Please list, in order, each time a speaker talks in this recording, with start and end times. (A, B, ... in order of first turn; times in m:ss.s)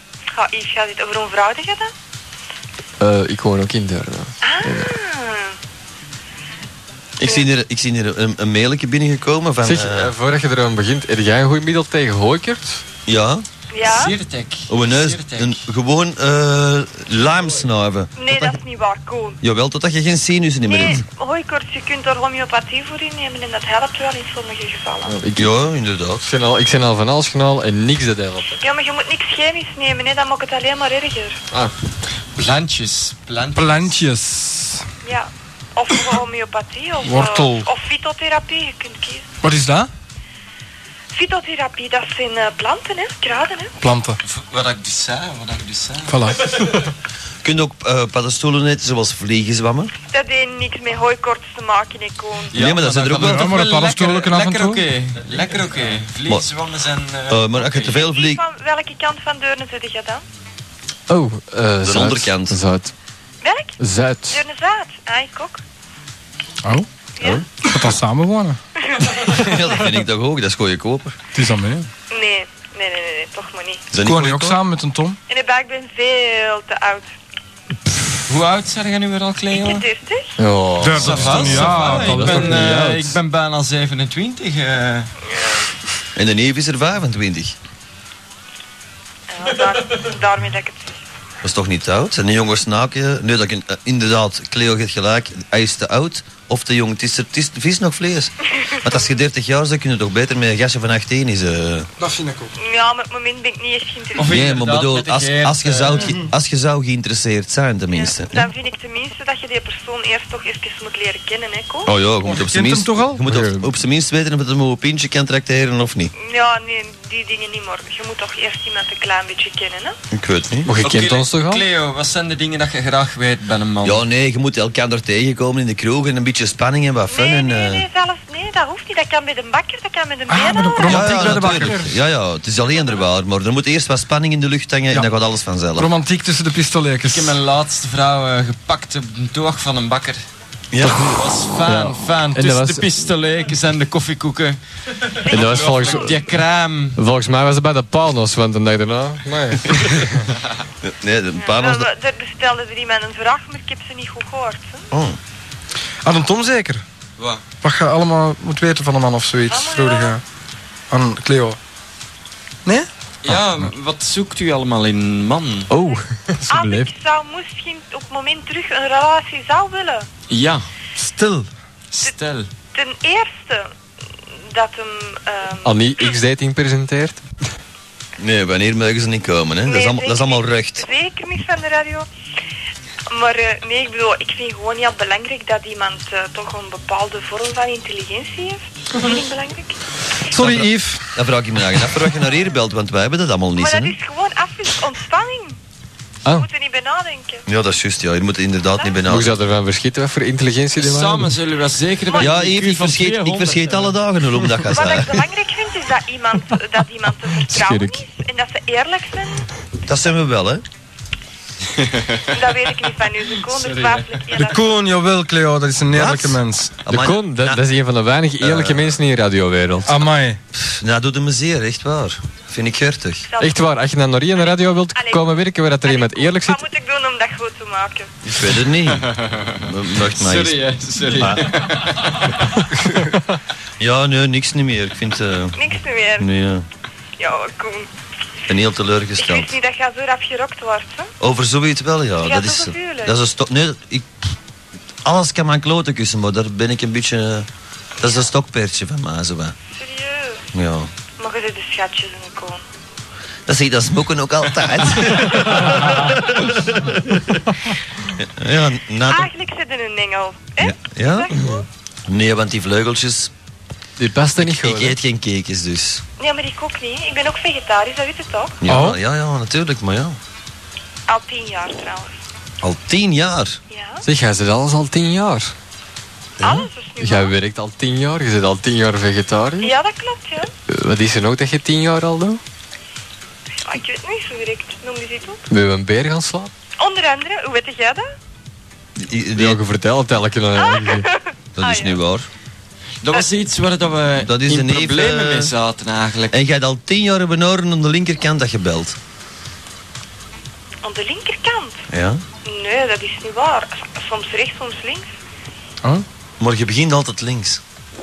0:00.3-0:01.9 A
0:03.0-0:04.9 B
0:04.4-0:05.6 A
0:07.2-0:10.1 C
0:09.6-0:12.8 B
0:13.0-0:13.4 C
0:13.7-0:14.1 A
0:13.8-0:15.6 D
0:14.7-0:18.6 C
0:18.2-0:19.4 A
0:19.4-0:21.0 C
0:20.7-0:25.2 A
0:25.0-0:25.5 B
0:25.4-0:26.2 C
0:26.2-0:28.6 B
0:28.6-0:31.4 A
0:32.4-0:34.0 D
0:33.5-0:34.8 E
0:35.0-0:39.4 A
0:37.0-0:37.7 E
0:39.4-0:39.9 E
0:41.1-0:43.7 A
0:43.8-0:44.2 E
0:44.2-0:46.3 D
0:46.1-0:46.8 E
0:47.4-0:49.9 C
0:50.1-0:52.5 A
0:52.5-0:58.0 D
0:52.5-0:53.6 C
0:53.2-0:54.8 E
0:57.3-0:58.4 C
0:57.9-1:00.2 A
1:01.1-1:02.9 B
1:01.8-1:02.6 C
1:03.4-1:03.8 A
1:03.8-1:04.4 B
1:04.3-1:05.6 A
1:07.2-1:07.4 A
1:07.6-1:08.6 E
1:08.8-1:09.4 A
1:09.3-1:11.1 C
1:11.3-1:11.9 E
1:12.1-1:13.8 A
1:13.9-1:14.6 C
1:14.0-1:15.2 E
1:15.3-1:17.1 A
1:18.3-1:19.8 D
1:19.5-1:20.4 A
1:20.4-1:23.2 B
1:20.8-1:22.6 E
1:20.9-1:25.1 D
1:25.3-1:25.7 A
1:26.2-1:27.5 C
1:29.3-1:30.9 A
1:31.4-1:41.9 C
1:42.0-1:42.5 E
1:42.6-1:44.3 A
1:44.1-1:46.1 D
1:44.2-1:48.4 C
1:47.9-1:51.9 A
1:51.8-1:56.1 C
1:52.2-1:53.6 E
1:56.2-2:00.0 A
2:00.1-2:00.7 C
2:00.6-2:01.6 B
2:00.8-2:04.0 D
2:03.8-2:07.8 C
2:07.1-2:11.6 A
2:10.3-2:12.0 E
2:10.8-2:15.9 C
2:15.8-2:17.4 E
2:17.1-2:20.2 D
2:20.7-2:21.1 C
2:20.8-2:22.9 B
2:21.0-2:27.0 D
2:25.3-2:26.2 A
2:25.3-2:26.2 B
2:27.0-2:30.2 B
2:30.8-2:31.9 C
2:31.4-2:34.9 A
2:34.9-2:35.2 C
2:36.0-2:36.8 E
2:37.2-2:37.4 D
2:37.6-2:40.2 E
2:39.5-2:40.2 A
2:40.9-2:41.6 E
2:43.2-2:45.7 D
2:43.3-2:43.6 B
2:45.7-2:46.9 B
2:46.5-2:50.1 A
2:50.3-2:50.7 D
2:51.0-2:51.5 E
2:51.9-2:52.5 D
2:52.7-2:53.7 A
2:54.5-2:56.2 A
2:55.6-2:57.2 B
2:58.2-3:00.8 C
2:59.6-3:02.1 A
3:03.1-3:09.8 A
3:10.3-3:11.1 E
3:10.3-3:13.9 C
3:13.6-3:15.6 A
3:16.3-3:17.4 A
3:17.5-3:19.3 C
3:19.1-3:21.4 B
3:20.8-3:24.0 D
3:22.1-3:22.3 A
3:22.2-3:25.1 C
3:24.7-3:29.5 A
3:27.5-3:28.0 B
3:29.8-3:30.6 C
3:31.7-3:32.4 D
3:32.3-3:34.6 A
3:33.4-3:34.3 D
3:34.3-3:36.7 E
3:35.9-3:37.6 C
3:36.9-3:40.0 B
3:38.4-3:39.0 C
3:39.9-3:40.4 E
3:40.5-3:43.3 C
3:43.3-3:43.6 A
3:43.4-3:46.6 B
3:44.9-3:48.1 A
3:48.2-3:51.4 C
3:49.0-3:52.6 D
3:53.8-3:55.6 C
3:55.5-3:56.3 A
3:56.2-3:56.6 C
3:57.2-3:57.9 A
3:58.5-3:59.5 C
3:59.2-4:01.1 A
4:01.2-4:04.1 C
4:02.2-4:03.1 A
4:05.0-4:07.5 C
4:08.0-4:09.5 C
4:09.7-4:10.5 A
4:10.5-4:10.9 C
4:11.2-4:12.6 A
4:13.5-4:17.4 C
4:15.1-4:16.1 A
4:18.2-4:19.3 C
4:19.1-4:21.6 A
4:20.6-4:23.3 C
4:24.0-4:25.0 B
4:24.4-4:26.0 C
4:26.2-4:28.6 A
4:28.6-4:30.2 C
4:28.7-4:29.0 E
4:31.1-4:32.2 A
4:32.6-4:33.6 C
4:33.7-4:34.0 A
4:34.0-4:35.5 B
4:36.4-4:36.7 C
4:36.4-4:37.3 A
4:37.0-4:39.7 B
4:39.6-4:40.5 A
4:40.7-4:42.4 B
4:43.6-4:45.4 A
4:45.5-4:46.5 B
4:46.8-4:48.1 A
4:49.0-4:49.6 C
4:49.3-4:51.1 B
4:50.6-4:52.0 A
4:51.6-4:52.3 C
4:53.0-4:56.4 D
4:54.2-4:55.5 C
4:56.3-4:59.0 C
5:00.8-5:01.8 A
5:01.9-5:02.2 C
5:02.4-5:05.1 A
5:06.4-5:07.6 C